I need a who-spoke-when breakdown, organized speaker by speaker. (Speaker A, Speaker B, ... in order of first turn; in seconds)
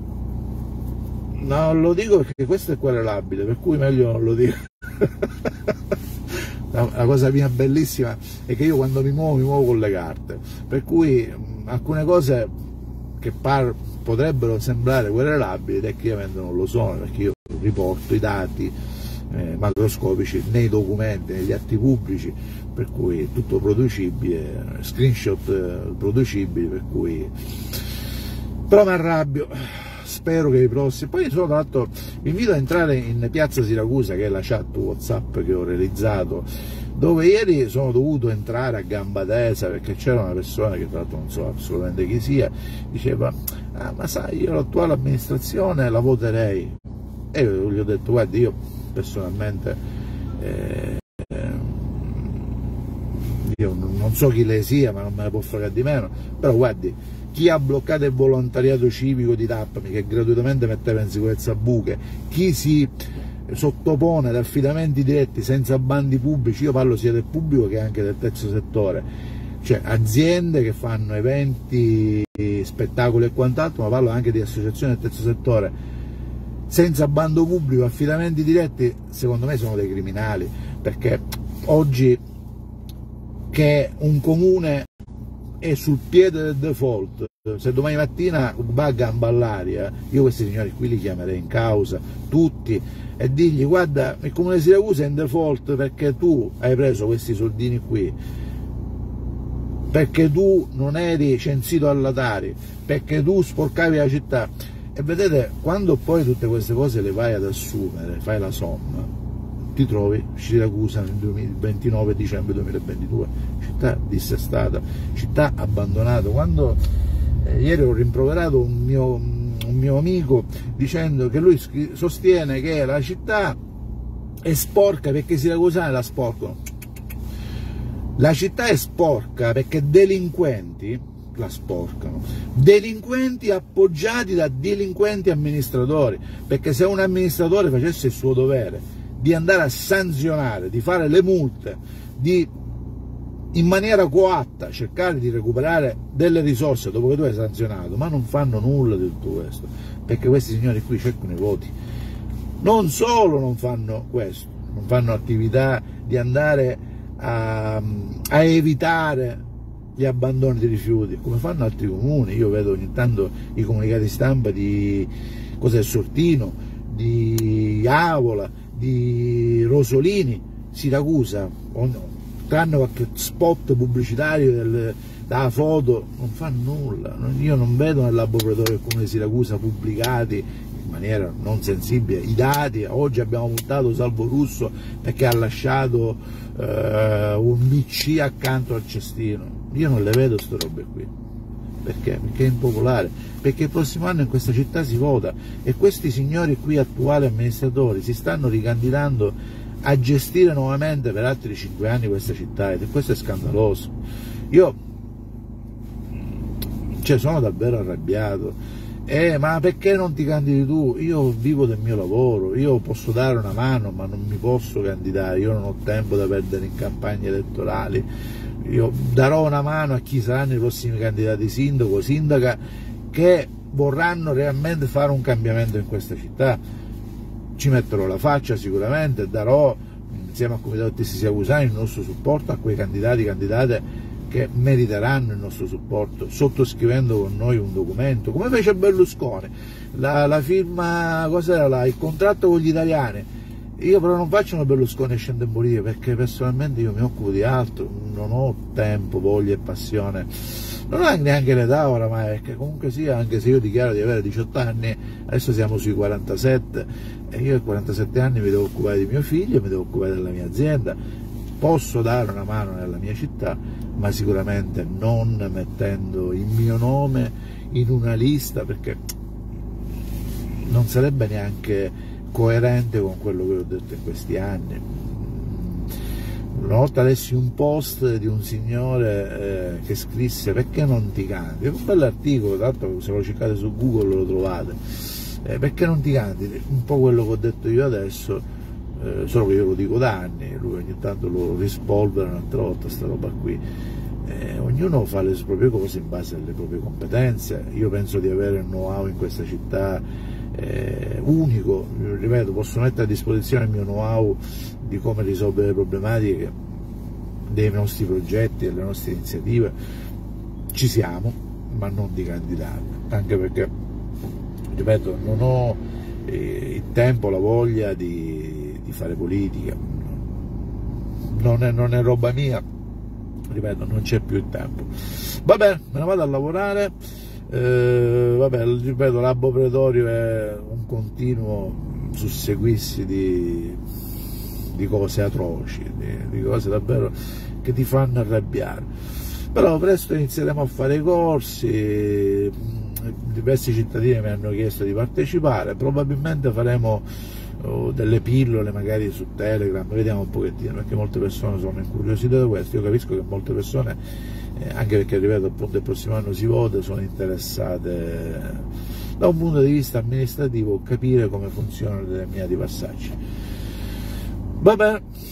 Speaker A: 1.3-5.5, 6.7-12.5, 13.2-18.7, 19.3-27.3, 28.7-46.8, 47.3-49.8, 50.4-52.5, 53.2-62.9, 63.5-69.0, 69.6-75.7, 76.7-82.2, 83.5-84.9, 85.6-98.2, 99.9-109.1, 109.7-116.8, 117.4-123.6, 124.4-126.6, 128.2-142.5, 143.5-151.7, 152.6-159.4, 159.9-191.1, 191.8-203.9, 204.5-204.8, 207.0-218.1, 218.6-222.6, 223.1-226.6, 227.6-243.3, 243.8-261.0, 261.6-269.0, 270.6-275.9, 276.5-288.4, 288.9-293.6, 294.2-306.5, 307.5-309.7, 310.7-313.7, 314.7-320.3, 321.3-322.6, 323.5-326.9, 327.5-333.8, 334.7-338.9, 339.5-347.1, 347.6-354.0, 354.5-358.7, 359.2-363.2, 364.6-365.0